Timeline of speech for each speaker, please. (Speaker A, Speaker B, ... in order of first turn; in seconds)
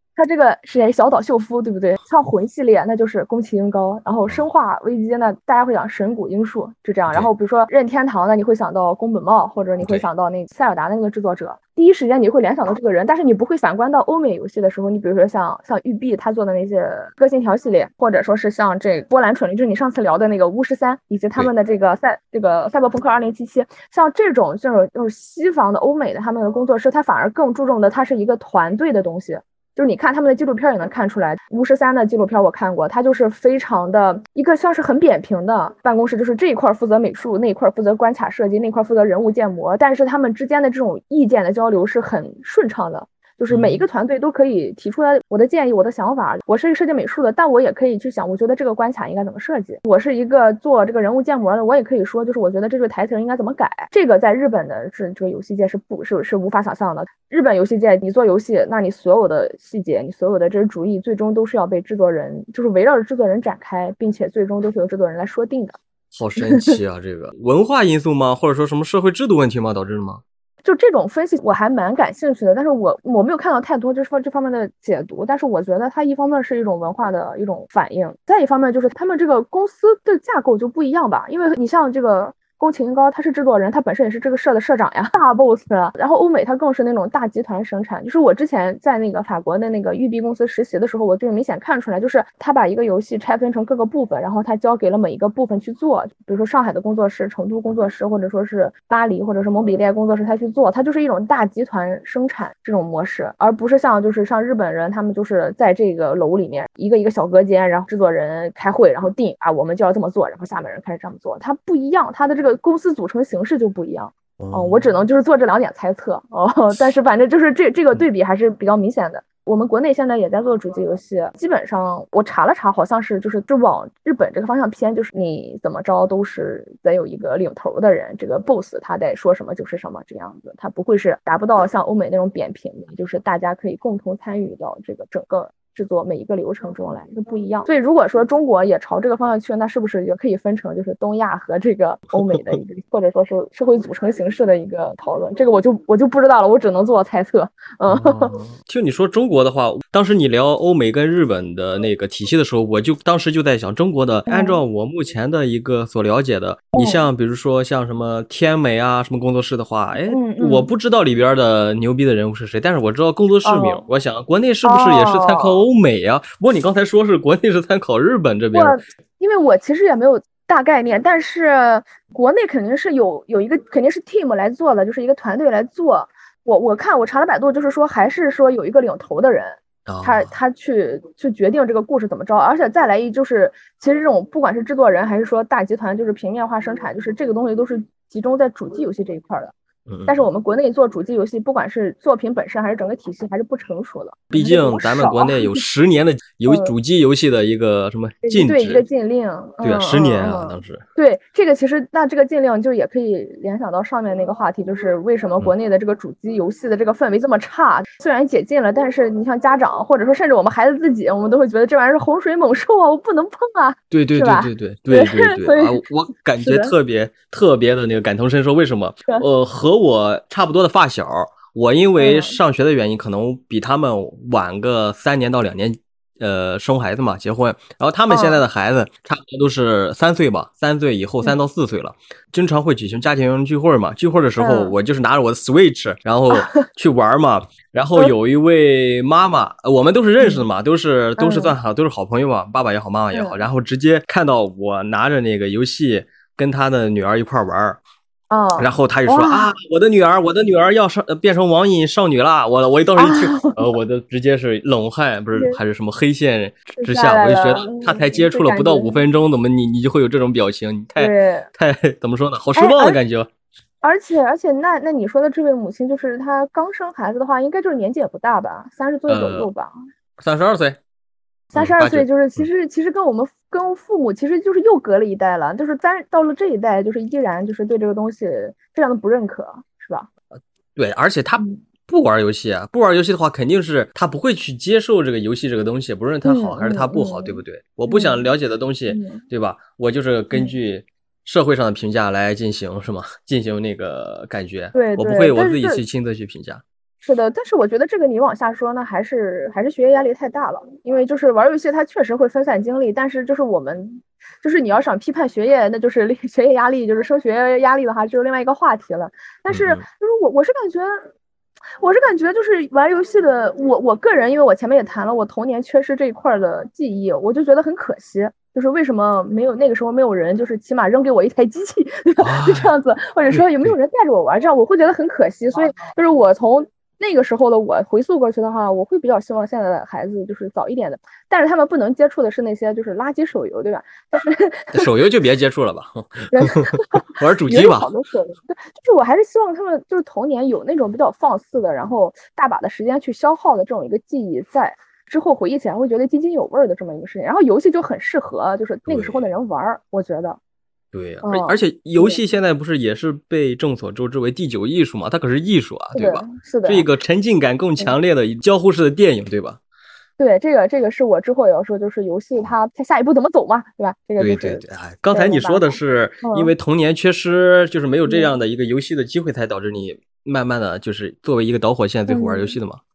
Speaker A: 0.1-65.8, 66.5-66.8, 70.6-148.4, 154.3-154.6, 156.7-157.0, 160.1-160.7, 163.4-163.8, 164.6-165.6, 168.5-189.5, 190.1-195.6, 196.5-196.7, 198.2-215.8, 216.4-216.7, 222.0-222.4, 228.1-228.4, 234.4-234.7, 236.3-236.7, 240.2-240.5, 241.2-241.5, 243.1-243.4, 248.3-249.5, 253.0-253.7, 255.3-255.6, 256.7-259.0, 261.0-261.5, 262.5-263.0, 263.8-269.7, 271.5-280.1, 281.4-281.6, 286.2-288.3, 288.9-289.2, 290.3-290.6, 294.7-295.8, 297.0-311.1, 311.8-334.9, 336.3-350.4, 351.2-352.2, 355.9-356.9, 360.2-366.5, 368.1-368.3, 372.1-372.5
Speaker B: 43.5-43.8, 66.1-70.2, 114.4-114.9, 142.2-142.6, 147.9-168.8, 179.8-180.3, 189.9-190.2, 194.3-198.8, 199.6-200.8, 213.9-247.8, 248.6-263.3, 269.1-269.5, 270.2-270.8, 271.5-272.5, 280.3-296.6, 309.5-309.8, 322.2-322.7, 323.3-323.7, 334.7-337.9, 348.9-349.2, 350.9-359.6, 364.2-372.8